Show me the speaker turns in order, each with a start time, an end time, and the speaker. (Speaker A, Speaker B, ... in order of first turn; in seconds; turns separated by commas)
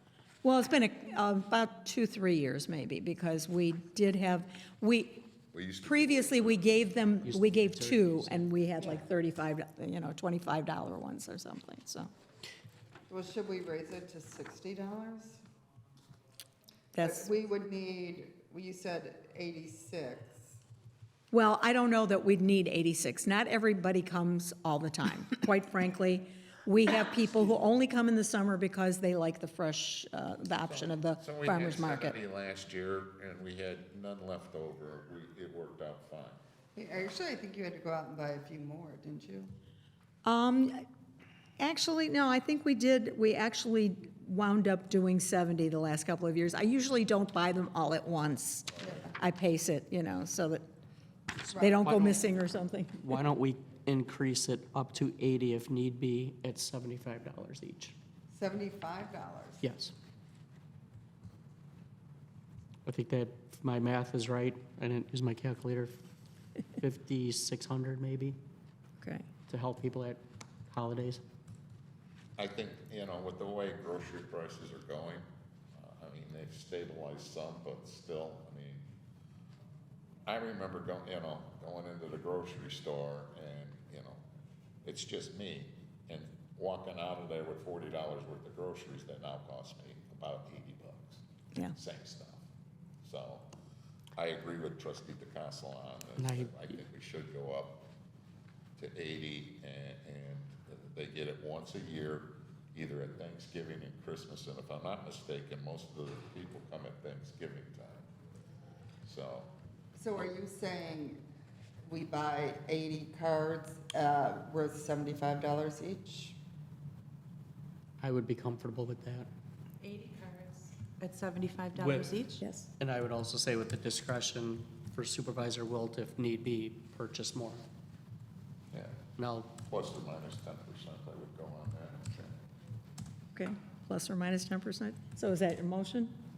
Speaker A: 0.4-12.1, Speaker B: 5.5-6.8, Speaker C: 7.2-8.4, Speaker D: 13.1-15.4, Speaker A: 16.9-17.3, Speaker D: 17.0-20.6, Speaker A: 21.3-32.2, Speaker B: 30.6-36.4, Speaker D: 36.7-39.5, Speaker A: 40.2-40.8, Speaker A: 41.6-50.6, Speaker D: 48.8-49.1, Speaker D: 51.5-52.2, Speaker A: 51.5-53.1, Speaker C: 51.8-52.1, Speaker C: 53.0-57.9, Speaker D: 58.3-59.6, Speaker C: 59.6-59.9, Speaker C: 62.9-66.0, Speaker C: 66.8-68.4, Speaker A: 69.0-69.2, Speaker C: 69.5-71.2, Speaker B: 72.4-78.8, Speaker B: 80.2-84.2, Speaker B: 84.8-91.2, Speaker B: 91.7-92.4, Speaker B: 93.0-93.5, Speaker B: 94.2-97.8, Speaker C: 96.2-96.7, Speaker B: 98.8-108.1, Speaker B: 109.0-109.5, Speaker D: 109.9-111.2, Speaker D: 111.9-116.4, Speaker C: 118.0-119.3, Speaker E: 119.8-122.5, Speaker C: 121.7-122.2, Speaker C: 122.8-127.6, Speaker B: 128.7-129.0, Speaker C: 129.2-129.5, Speaker B: 129.6-132.3, Speaker A: 133.3-136.1